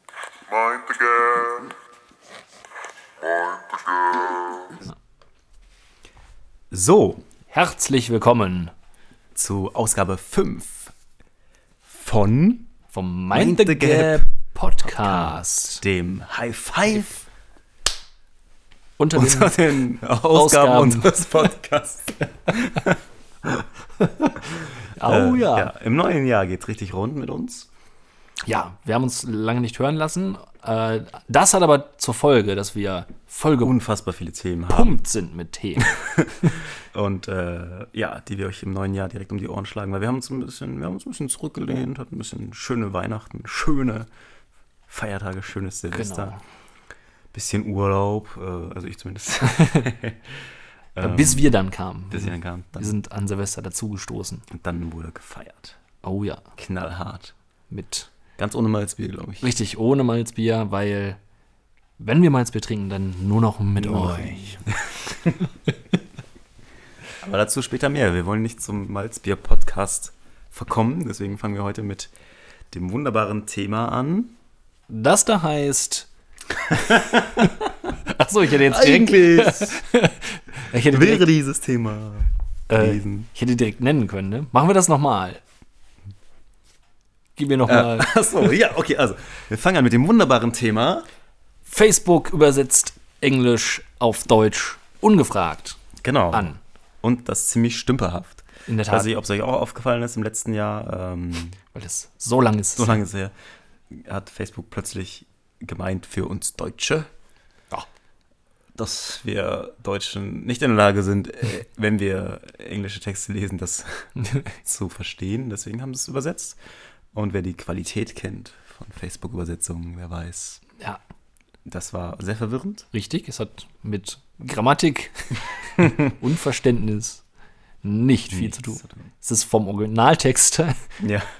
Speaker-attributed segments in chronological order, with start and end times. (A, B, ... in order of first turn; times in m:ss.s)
0:00.5-0:01.7 A
0:03.2-0:04.7 A
0:06.7-0:07.2 B
0:07.5-0:08.7 C
0:09.3-0:10.9 B
0:11.8-0:12.7 B
0:12.9-0:15.8 C
0:13.3-0:14.2 B
0:14.8-0:17.2 B
0:19.0-0:19.6 C
0:19.1-0:23.6 B
0:20.3-0:21.3 C
0:24.1-0:24.3 C
0:24.5-0:27.7 B
0:25.0-0:25.7 C
0:28.4-0:33.7 C
0:33.6-0:35.0 B
0:34.7-0:35.9 C
0:35.8-0:44.1 B
0:44.9-0:46.4 B
0:45.9-0:46.4 C
0:47.3-0:50.4 B
0:50.9-0:51.5 B
0:51.0-0:54.4 C
0:52.1-0:52.9 B
0:54.5-0:55.8 B
0:56.0-0:56.4 C
0:56.6-0:57.3 B
0:57.7-0:58.1 C
0:58.4-0:59.5 B
0:59.4-1:01.2 C
1:02.0-1:04.6 C
1:03.8-1:05.5 B
1:07.2-1:12.1 B
1:12.7-1:14.3 B
1:14.9-1:16.1 C
1:16.7-1:17.7 B
1:18.1-1:21.3 C
1:18.5-1:19.8 B
1:20.8-1:23.3 B
1:22.7-1:25.4 C
1:27.4-1:28.1 C
1:27.6-1:31.0 B
1:31.7-1:35.8 C
1:36.0-1:41.6 B
1:36.3-1:36.6 C
1:38.7-1:39.1 C
1:41.7-1:43.0 C
1:42.8-1:43.3 B
1:43.9-1:47.1 B
1:48.7-1:56.6 B
1:57.1-2:00.6 B
2:01.6-2:02.9 B
2:02.9-2:07.2 C
2:07.8-2:10.8 C
2:08.3-2:09.0 B
2:11.0-2:11.3 B